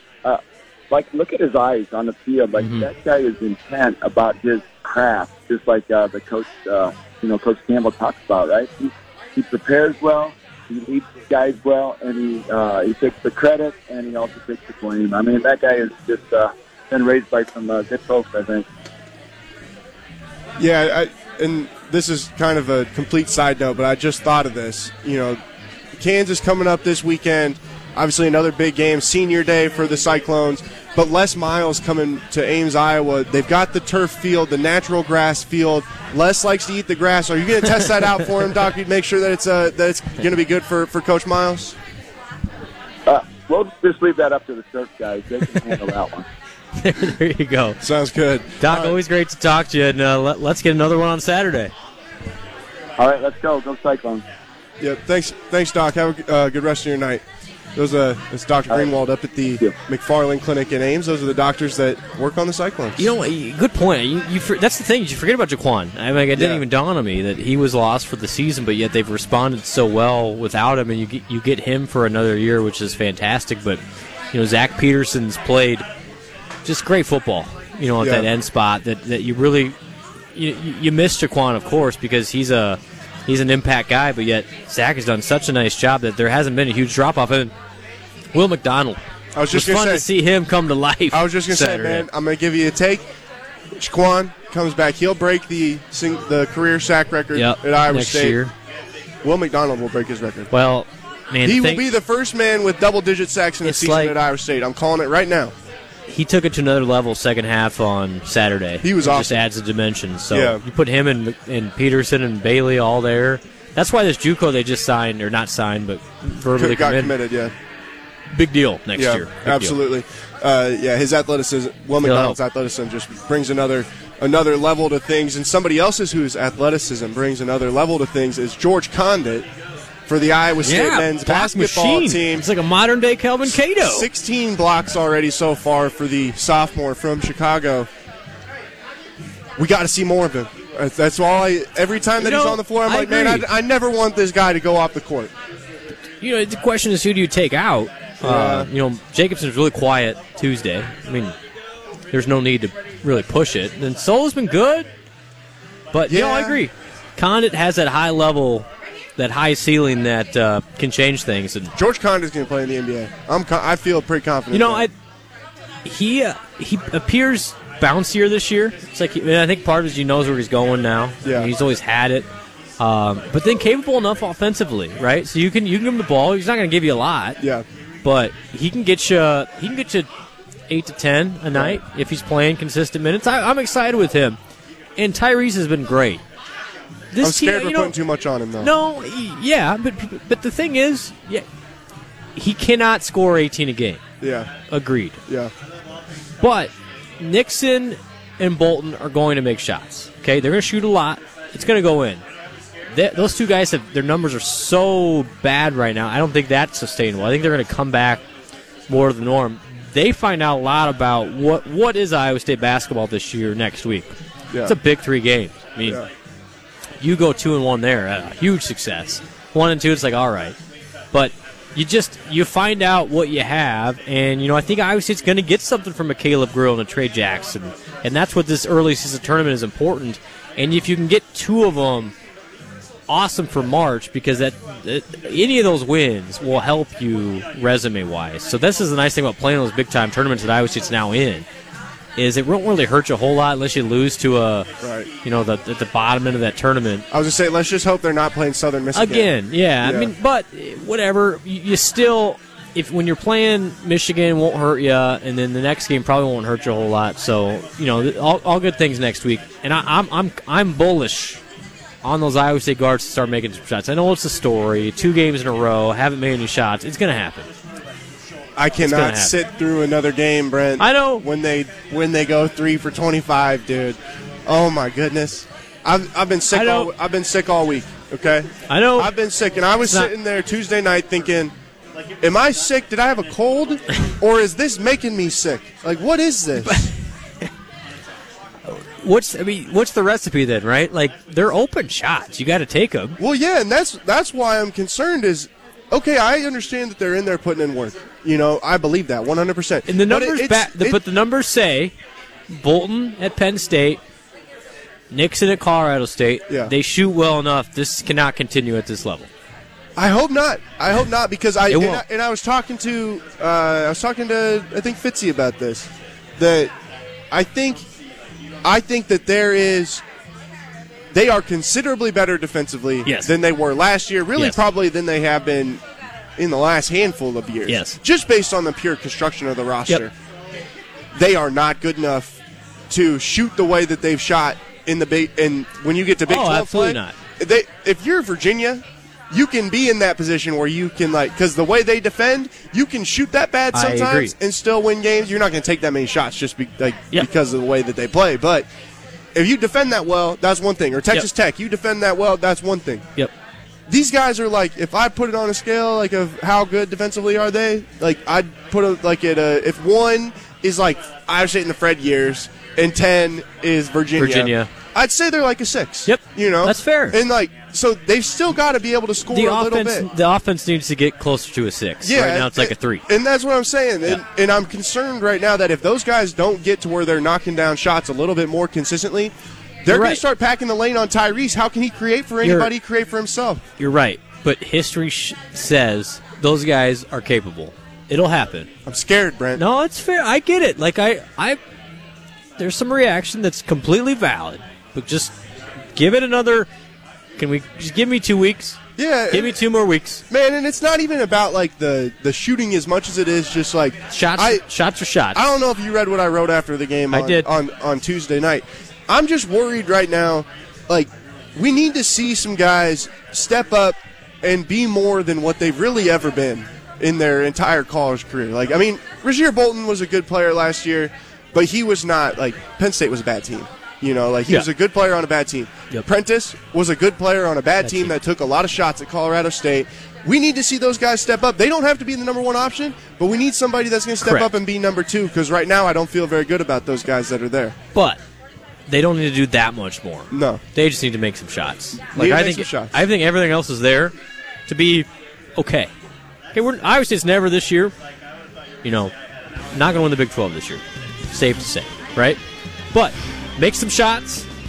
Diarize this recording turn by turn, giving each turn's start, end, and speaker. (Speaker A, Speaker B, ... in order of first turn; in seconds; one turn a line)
Speaker A: 0.2-18.6
Speaker B: 2.6-2.9
Speaker C: 20.6-25.4
Speaker C: 25.9-41.8
Speaker A: 43.0-46.2
Speaker B: 46.8-47.8
Speaker C: 47.8-49.0
Speaker B: 48.6-51.7
Speaker A: 53.0-54.2
Speaker C: 54.8-57.2
Speaker C: 57.7-63.0
Speaker B: 63.0-73.8
Speaker C: 66.3-66.6
Speaker B: 74.3-75.8
Speaker B: 76.6-79.8
Speaker C: 78.0-78.3
Speaker B: 80.3-87.5
Speaker B: 88.3-92.1
Speaker C: 89.3-90.0
Speaker C: 91.1-93.0
Speaker C: 93.7-98.4
Speaker B: 97.3-98.5
Speaker C: 99.2-100.5
Speaker B: 100.5-101.9
Speaker C: 101.4-105.5
Speaker B: 103.6-104.2
Speaker B: 106.1-117.2
Speaker C: 108.8-109.4
Speaker C: 110.3-110.6
Speaker C: 116.5-117.5
Speaker B: 118.3-119.8
Speaker C: 119.0-129.5
Speaker B: 122.0-122.4
Speaker C: 130.1-132.5
Speaker B: 130.6-134.1
Speaker C: 133.6-137.9
Speaker C: 139.6-145.3
Speaker B: 142.2-143.5
Speaker B: 146.2-151.3
Speaker C: 148.2-148.7
Speaker B: 152.1-154.9
Speaker B: 155.9-161.7
Speaker C: 156.1-156.6
Speaker C: 161.7-164.9
Speaker B: 164.5-164.9
Speaker B: 165.8-177.4
Speaker C: 171.2-171.5
Speaker C: 177.4-177.7
Speaker B: 178.0-180.1
Speaker B: 180.7-184.4
Speaker C: 181.5-181.8
Speaker B: 185.0-186.2
Speaker B: 187.1-187.9
Speaker C: 187.2-188.7
Speaker B: 188.6-191.4
Speaker B: 192.3-194.0
Speaker C: 194.2-194.5
Speaker B: 194.7-195.2
Speaker B: 196.4-202.2
Speaker B: 202.9-208.2
Speaker B: 208.9-214.1
Speaker B: 214.6-216.0
Speaker B: 217.0-220.6
Speaker B: 221.1-232.1
Speaker B: 233.1-241.5
Speaker B: 242.2-244.7
Speaker C: 244.8-245.1
Speaker B: 245.2-247.1
Speaker C: 247.1-250.1
Speaker B: 248.9-261.4
Speaker B: 262.0-267.5
Speaker C: 268.6-281.5
Speaker B: 268.8-269.3
Speaker B: 270.8-271.2
Speaker B: 276.5-276.9
Speaker B: 278.7-279.1
Speaker B: 279.8-280.1
Speaker C: 282.2-286.8
Speaker B: 286.6-287.5
Speaker B: 288.6-293.2
Speaker C: 293.2-301.0
Speaker B: 299.9-301.9
Speaker B: 302.5-304.0
Speaker B: 305.1-309.3
Speaker C: 309.9-316.7
Speaker B: 311.7-312.0
Speaker C: 317.3-317.9
Speaker C: 318.6-320.0
Speaker C: 321.1-325.8
Speaker B: 323.1-323.3
Speaker C: 326.4-330.1
Speaker B: 327.7-328.0
Speaker C: 331.1-332.4
Speaker C: 332.9-348.7
Speaker B: 336.3-337.1
Speaker B: 343.7-344.3
Speaker C: 349.3-353.1
Speaker C: 353.9-370.1
Speaker B: 364.2-364.7
Speaker B: 366.1-367.2
Speaker B: 369.3-373.0
Speaker C: 372.0-383.6
Speaker B: 379.9-380.2
Speaker B: 382.4-382.7
Speaker B: 383.8-388.7
Speaker C: 388.9-389.6
Speaker B: 389.6-391.6
Speaker B: 392.6-395.3
Speaker B: 395.9-396.7
Speaker B: 397.4-398.8
Speaker C: 399.0-399.6
Speaker B: 399.3-400.2
Speaker C: 400.3-404.6
Speaker B: 404.1-405.4
Speaker C: 405.3-437.7
Speaker B: 407.1-407.5
Speaker B: 427.8-428.1
Speaker B: 434.2-434.5
Speaker B: 437.9-438.2
Speaker B: 438.9-444.1
Speaker C: 440.3-440.6
Speaker C: 442.1-443.0
Speaker B: 444.7-445.9
Speaker B: 446.5-447.9
Speaker B: 448.8-449.1
Speaker B: 449.7-452.4
Speaker B: 452.9-454.5